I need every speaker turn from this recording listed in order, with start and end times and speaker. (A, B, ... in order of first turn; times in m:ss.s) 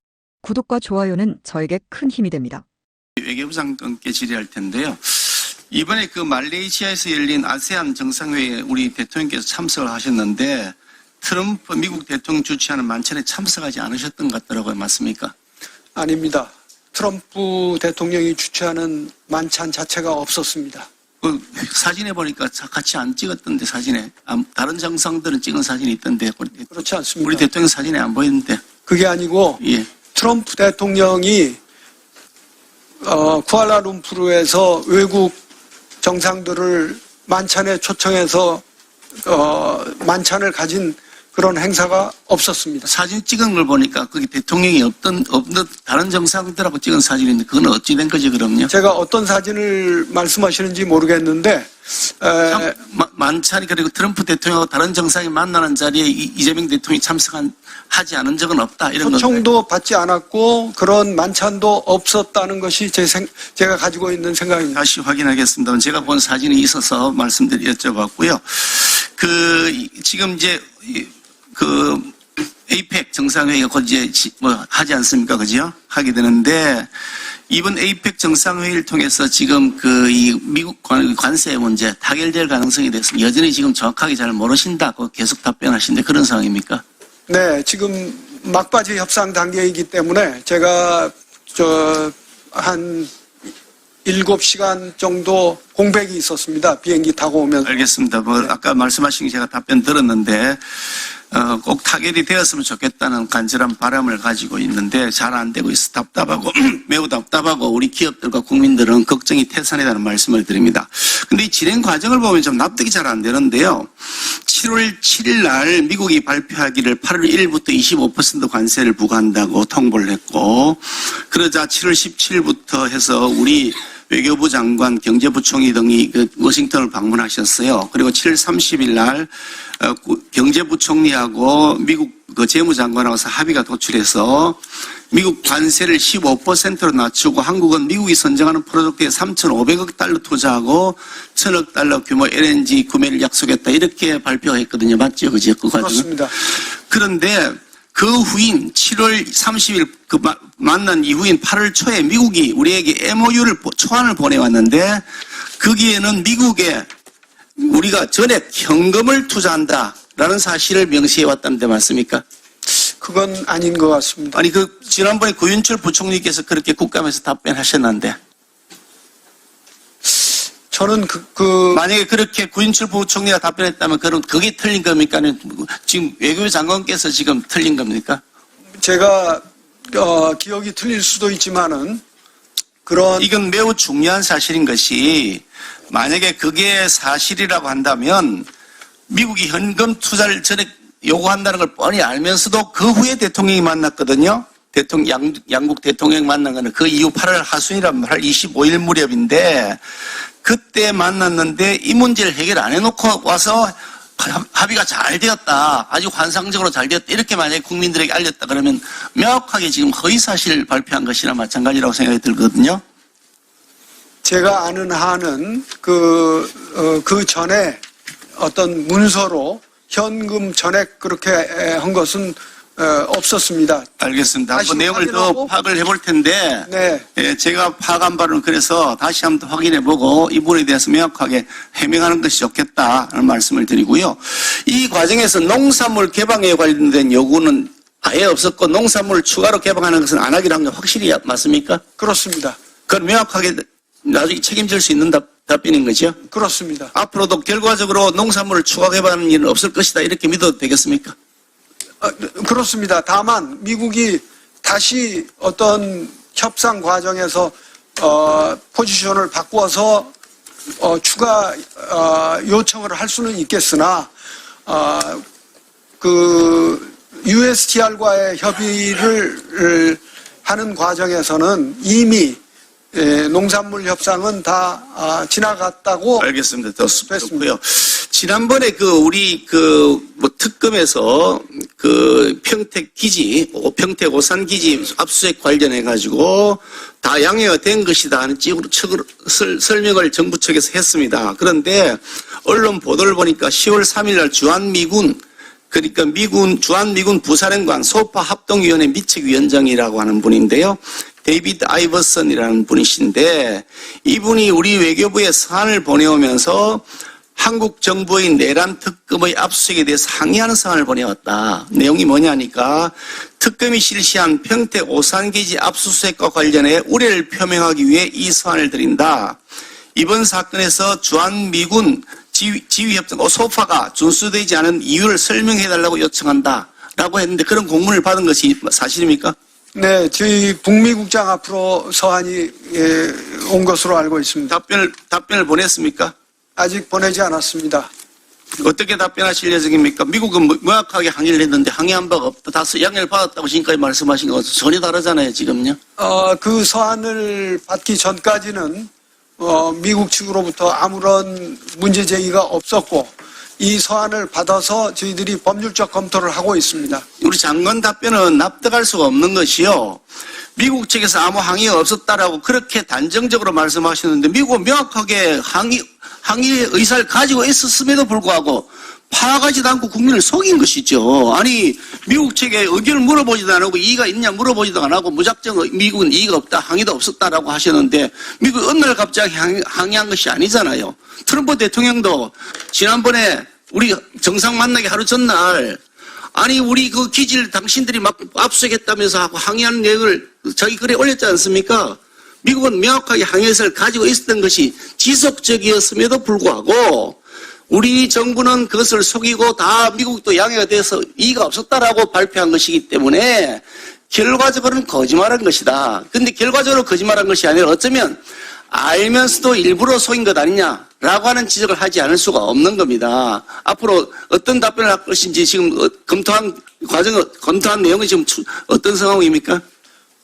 0:00.4-0:02.6 A
0:03.2-0:15.3 B
0:15.9-0:20.9 C
0:21.2-0:28.6 B
0:26.7-0:27.5 C
0:28.9-0:29.6 C
0:29.6-0:29.9 B
0:30.1-0:31.6 C
0:33.0-0:35.3 C
0:36.0-0:38.6 C
0:39.2-0:42.9 C
0:42.8-0:48.7 B
0:48.7-0:52.7 C
0:52.5-0:59.4 B
0:59.0-1:04.8 C
1:04.7-1:12.1 B
1:12.7-1:16.9 B
1:17.5-1:26.8 B
1:27.3-1:33.1 C
1:34.0-1:37.8 C
1:37.6-1:40.6 B
1:41.3-2:14.6 B
2:15.1-2:35.0 B
2:25.8-2:26.3 C
2:35.6-2:36.8 B
2:37.6-2:42.2 B
2:43.0-2:44.4 C
2:44.3-2:48.2 B
2:50.1-2:51.8 C
2:51.7-2:58.2 B
2:58.8-3:02.0 C
3:02.8-3:03.3 C
3:03.2-3:08.4 B
3:09.1-3:19.8 B
3:20.4-3:32.8 B
3:34.2-3:37.8 C
3:38.4-3:43.9 C
3:44.0-4:01.8 B
3:44.5-3:45.5 C
3:46.7-3:47.0 C
4:02.0-4:02.6 C
4:02.9-4:06.2 B
4:06.3-4:06.9 C
4:06.9-4:11.1 B
4:12.0-4:20.1 C
4:20.8-4:24.1 C
4:24.6-4:25.2 C
4:26.0-4:32.4 C
4:32.9-4:36.3 C
4:36.2-5:06.8 B
4:37.1-4:37.4 C
5:07.4-5:19.4 B
5:20.0-5:29.3 B
5:29.7-5:34.6 C
5:34.5-5:36.1 B
5:36.6-5:37.9 C
5:38.6-5:45.8 B
5:46.0-5:57.0 C
5:57.2-6:00.0 B
6:00.6-6:25.8 B
6:26.3-6:37.2 B
6:37.7-6:48.2 B
6:48.7-6:59.6 B